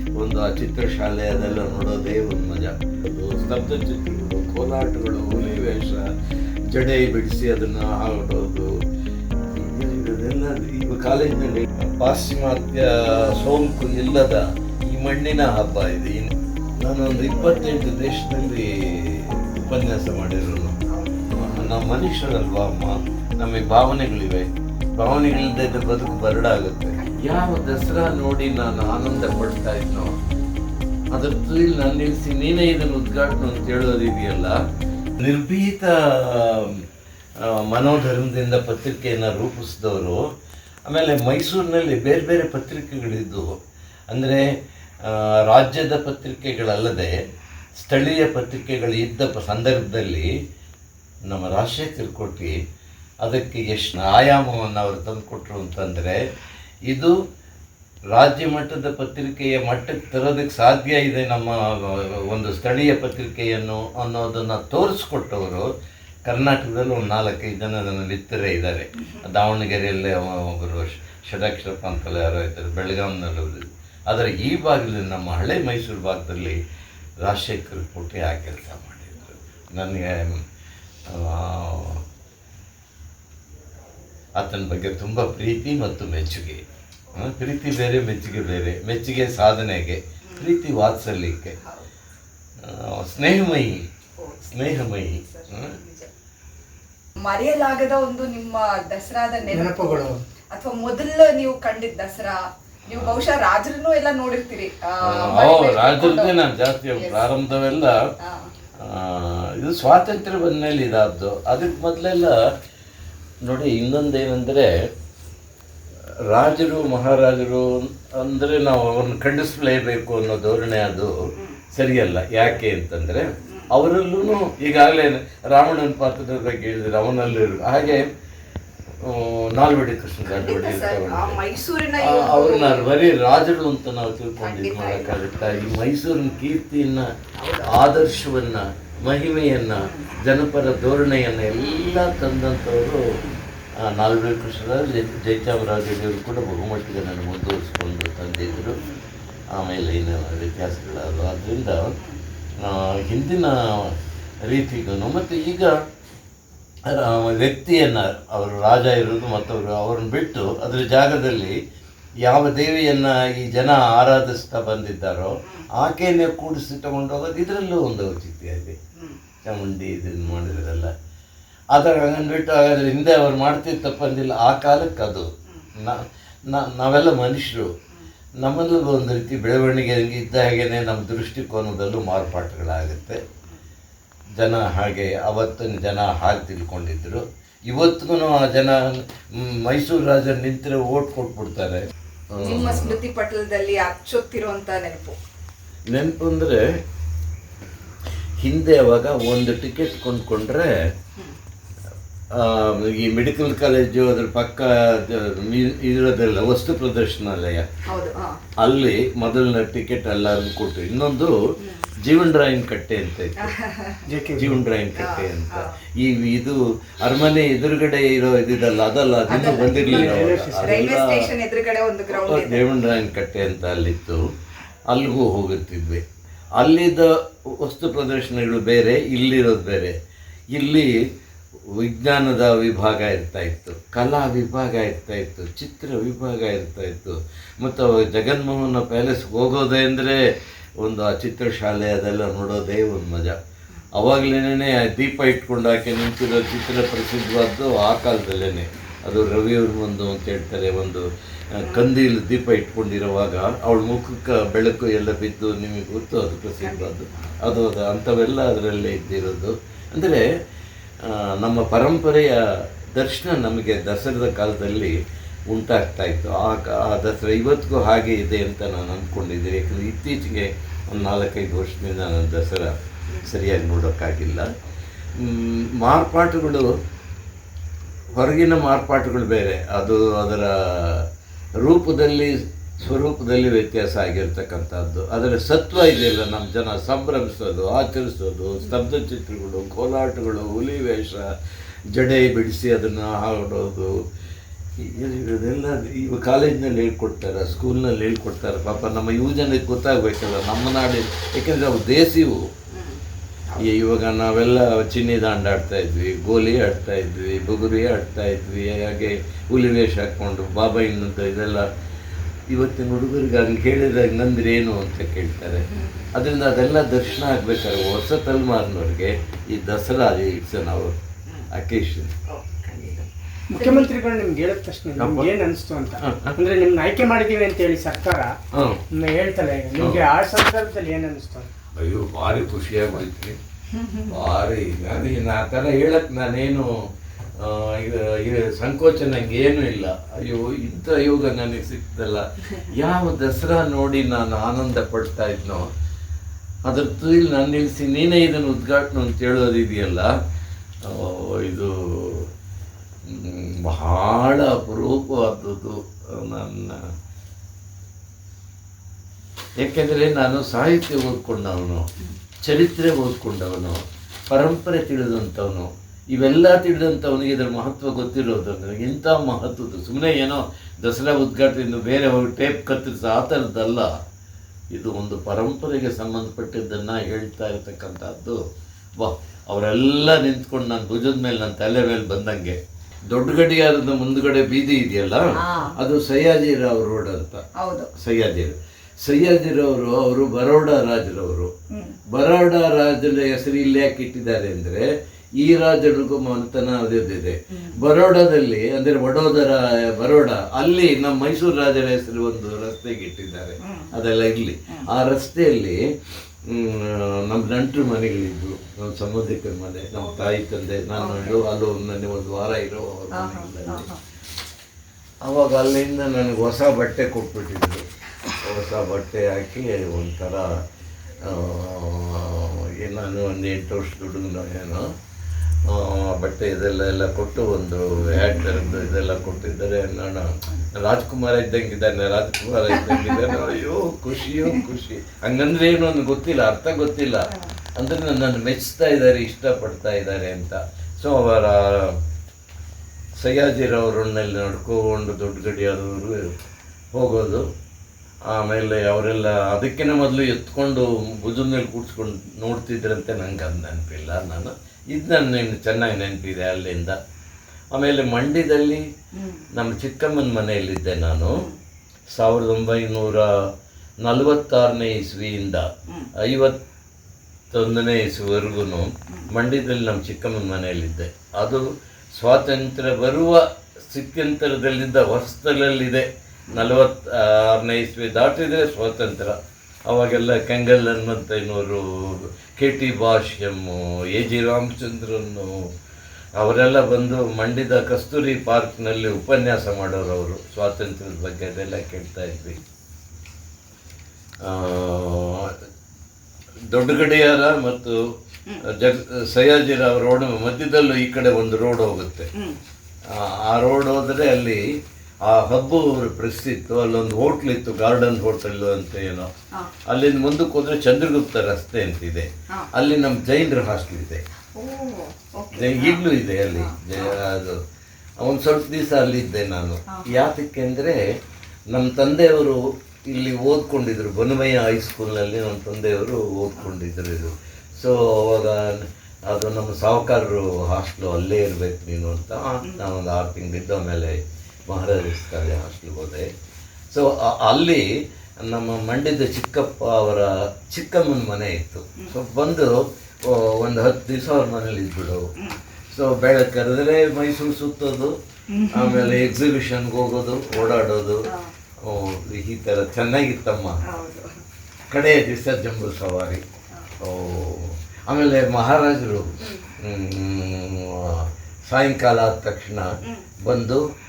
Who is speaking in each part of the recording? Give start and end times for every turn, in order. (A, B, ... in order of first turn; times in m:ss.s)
0:00.2-0:06.1 A
0:06.7-0:08.7 A
0:09.5-0:20.8 A
0:20.9-0:21.5 B
0:21.3-0:30.1 A
0:31.1-0:34.6 A
0:35.2-0:36.8 A
0:37.4-0:40.2 A
0:40.9-0:44.4 A
0:45.0-0:47.1 A
0:47.8-0:50.3 A
0:51.3-0:52.6 A
0:53.2-0:56.2 A
0:56.9-0:57.1 A
0:58.1-1:05.7 A
1:06.2-1:16.6 A
1:17.2-1:20.4 A
1:21.1-1:22.0 A
1:24.4-1:31.6 A
1:31.6-1:31.9 B
1:32.6-1:33.8 A
1:34.2-1:36.1 B
1:34.5-1:35.7 A
1:37.2-1:46.4 B
1:39.5-1:40.2 C
1:42.9-1:43.2 A
1:45.0-1:48.0 A
1:47.0-1:47.3 B
1:48.2-1:48.5 B
1:48.8-1:52.4 A
1:53.4-1:54.7 A
1:56.3-2:01.1 A
2:01.7-2:08.1 A
2:09.0-2:11.4 A
2:10.3-2:12.9 B
2:12.0-2:17.1 A
2:14.4-2:15.6 B
2:17.4-2:17.8 B
2:17.6-2:23.1 A
2:19.8-2:20.1 B
2:23.8-2:28.8 A
2:28.6-2:29.0 B
2:29.5-2:31.9 A
2:32.6-2:35.8 A
2:36.8-2:41.6 A
2:42.2-2:48.8 A
2:49.4-2:50.9 A
2:51.7-2:57.7 A
2:58.4-3:03.2 A
3:04.4-3:13.0 A
3:12.4-3:15.2 B
3:15.9-3:16.6 A
3:18.4-3:20.7 A
3:22.3-3:27.6 A
3:27.9-3:28.4 B
3:28.6-3:31.4 A
3:31.6-3:31.8 B
3:32.0-3:33.5 A
3:33.4-3:34.0 B
3:34.0-3:34.6 C
3:34.4-3:41.2 A
3:34.9-3:35.8 B
3:39.3-3:42.7 B
3:39.5-3:40.8 C
3:42.1-3:44.2 A
3:44.9-3:46.0 A
3:46.6-3:50.0 A
3:50.5-3:51.0 A
3:51.7-4:00.2 A
4:00.8-4:03.4 A
4:03.9-4:20.2 A
4:11.6-4:11.9 B
4:16.6-4:17.4 B
4:21.0-4:22.4 A
4:22.9-4:24.9 A
4:25.5-4:34.5 A
4:35.2-4:36.7 A
4:38.2-4:41.1 A
4:41.6-4:51.3 A
4:51.9-4:53.9 A
4:54.8-5:02.4 A
5:02.7-5:03.7 B
5:03.6-5:11.7 A
5:12.5-5:21.0 A
5:21.5-5:22.1 A
5:22.3-5:23.9 B
5:23.5-5:28.3 C
5:25.0-5:25.3 A
5:26.0-5:26.4 A
5:28.5-5:28.8 A
5:28.9-5:31.5 C
5:31.8-5:33.4 A
5:33.7-5:34.2 B
5:34.1-5:36.7 A
5:37.4-5:45.6 A
5:46.6-5:50.1 A
5:50.8-5:52.3 A
5:53.0-5:56.9 A
5:59.6-6:01.9 A
6:02.4-6:13.9 A
6:14.7-6:18.4 A
6:19.0-6:27.4 A
6:25.4-6:25.8 B
6:27.6-6:27.9 B
6:27.9-6:31.5 A
6:31.7-6:32.0 B
6:32.1-6:34.9 A
6:35.4-6:45.8 A
6:37.5-6:37.8 B
6:43.6-6:43.9 B
6:46.4-6:53.9 A
6:50.0-6:50.3 B
6:50.9-6:51.4 B
6:53.1-6:54.0 B
6:55.2-7:00.5 A
7:01.2-7:04.8 A
7:05.6-7:22.0 A
7:12.7-7:13.6 B
7:23.2-7:26.3 A
7:26.9-7:27.4 A
7:28.3-7:37.0 A
7:37.7-7:38.8 A
7:39.1-7:39.5 B
7:39.5-7:41.4 A
7:42.1-7:43.3 A
7:44.0-7:46.6 A
7:47.5-7:59.4 A
7:59.9-8:05.7 A
8:06.4-8:12.6 A
8:14.4-8:15.6 A
8:16.7-8:18.0 A
8:18.6-8:22.3 A
8:23.1-8:24.6 A
8:25.2-8:29.3 A
8:29.9-8:34.2 A
8:34.6-8:37.2 B
8:35.5-8:37.6 A
8:38.2-8:41.0 A
8:39.9-8:40.2 B
8:41.7-8:56.3 A
8:56.9-8:57.9 A
8:58.4-9:05.3 A
9:05.9-9:08.1 A
9:08.5-9:09.2 B
9:08.7-9:11.3 A
9:11.2-9:11.5 B
9:11.8-9:13.8 A
9:13.8-9:14.4 B
9:14.9-9:16.4 A
9:17.0-9:22.9 A
9:19.4-9:19.7 B
9:23.4-9:23.8 A